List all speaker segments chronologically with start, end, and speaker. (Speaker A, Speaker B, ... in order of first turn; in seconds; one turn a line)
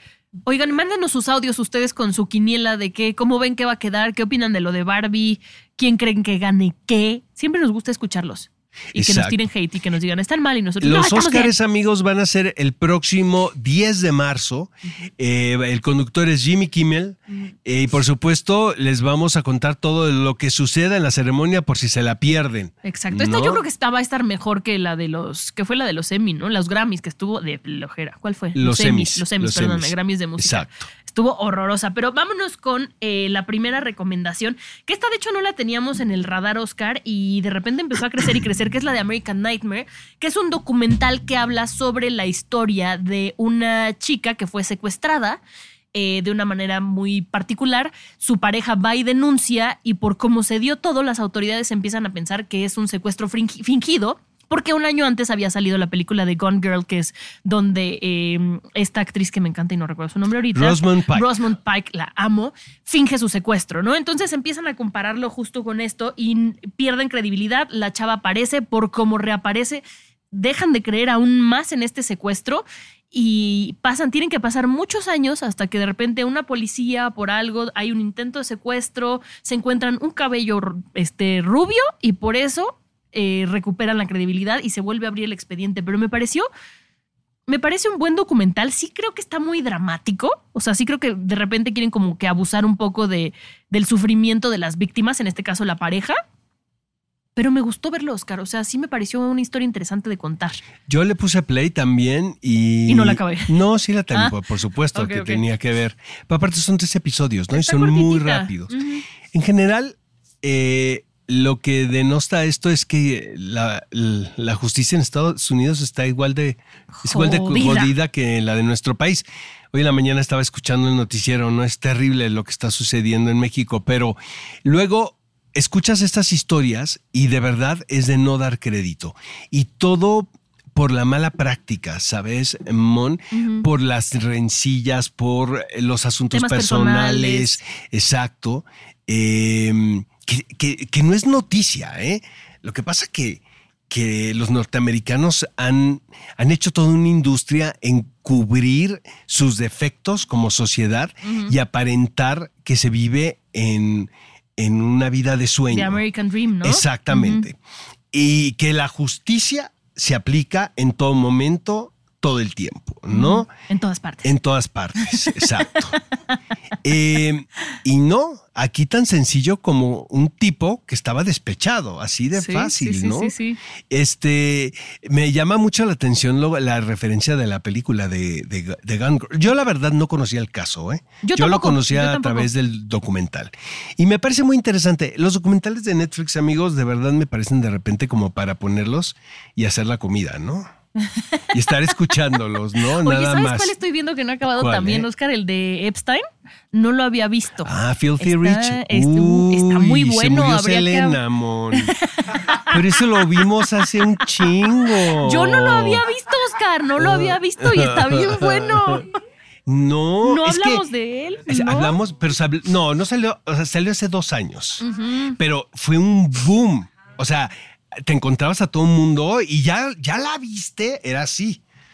Speaker A: 0.5-11.5
Speaker B: 8.9-9.4
Speaker B: 10.8-23.6
Speaker A: 17.3-17.5
Speaker A: 22.8-45.4
Speaker B: 28.6-30.9
Speaker A: 45.9-86.5
Speaker B: 60.5-61.3
Speaker A: 87.5-96.2
Speaker A: 97.3-100.6
Speaker B: 100.8-108.8
Speaker A: 102.9-103.5
Speaker A: 104.9-105.4
Speaker A: 107.5-109.0
Speaker B: 109.3-156.0
Speaker A: 116.9-117.9
Speaker A: 133.3-133.7
Speaker A: 136.3-137.6
Speaker A: 151.2-151.5
Speaker A: 155.7-157.4
Speaker B: 156.6-157.6
Speaker B: 158.1-163.5
Speaker A: 163.1-164.3
Speaker B: 164.2-166.0
Speaker A: 165.1-165.8
Speaker B: 166.8-173.3
Speaker A: 172.3-173.6
Speaker B: 173.9-190.7
Speaker A: 181.2-182.5
Speaker A: 191.0-192.2
Speaker B: 191.5-193.7
Speaker A: 192.8-201.2
Speaker B: 194.5-195.1
Speaker B: 197.6-201.9
Speaker A: 201.7-203.7
Speaker B: 202.7-206.0
Speaker A: 204.4-209.1
Speaker B: 207.0-209.0
Speaker B: 209.7-210.8
Speaker A: 210.2-211.9
Speaker B: 211.4-214.8
Speaker A: 214.8-215.4
Speaker B: 215.4-221.6